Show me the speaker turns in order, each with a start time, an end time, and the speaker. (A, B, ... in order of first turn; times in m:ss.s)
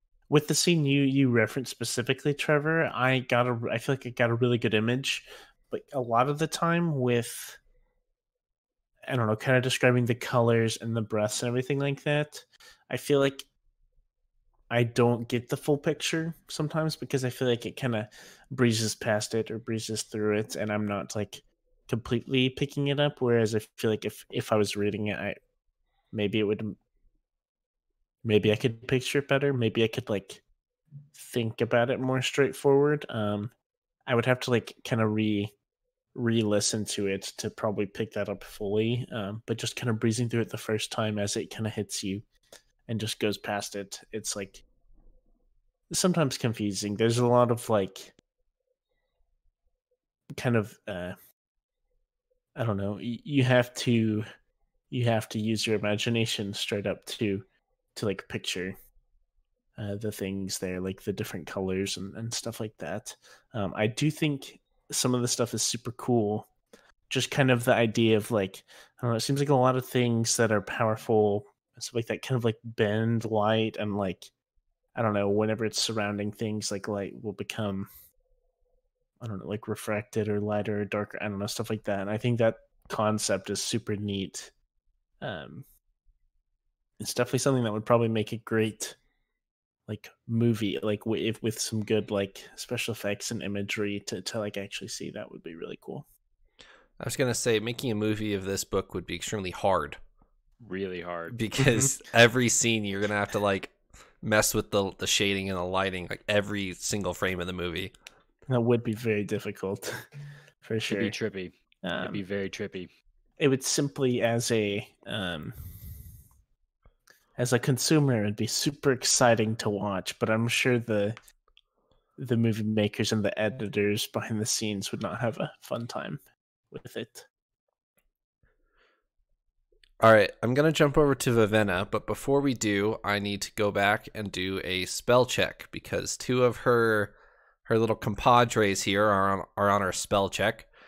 0:00.3-0:07.6 A
0:09.1-0:13.5 A
0:14.7-0:25.4 A
0:26.1-0:26.8 A
0:28.2-0:30.4 A
0:31.1-0:33.5 A
0:34.1-0:35.5 A
0:36.2-0:42.3 A
0:42.9-0:44.6 A
0:45.9-0:48.1 A
0:50.3-0:51.2 A
0:52.6-0:54.3 A
0:54.9-0:58.8 A
0:59.8-1:06.5 A
1:07.1-1:14.3 A
1:15.0-1:17.9 A
1:19.2-1:24.5 A
1:25.2-1:25.7 A
1:27.0-1:29.0 A
1:29.9-1:36.1 A
1:37.0-1:40.0 B
1:40.6-1:41.4 C
1:41.3-1:47.9 B
1:41.6-1:41.9 A
1:48.5-1:50.1 A
1:50.6-1:51.2 A
1:50.9-1:52.9 C
1:51.8-1:52.2 A
1:53.4-1:55.6 A
1:57.4-2:01.2 A
2:02.2-2:06.2 A
2:06.7-2:07.3 A
2:10.0-2:17.1 B
2:17.7-2:20.7 B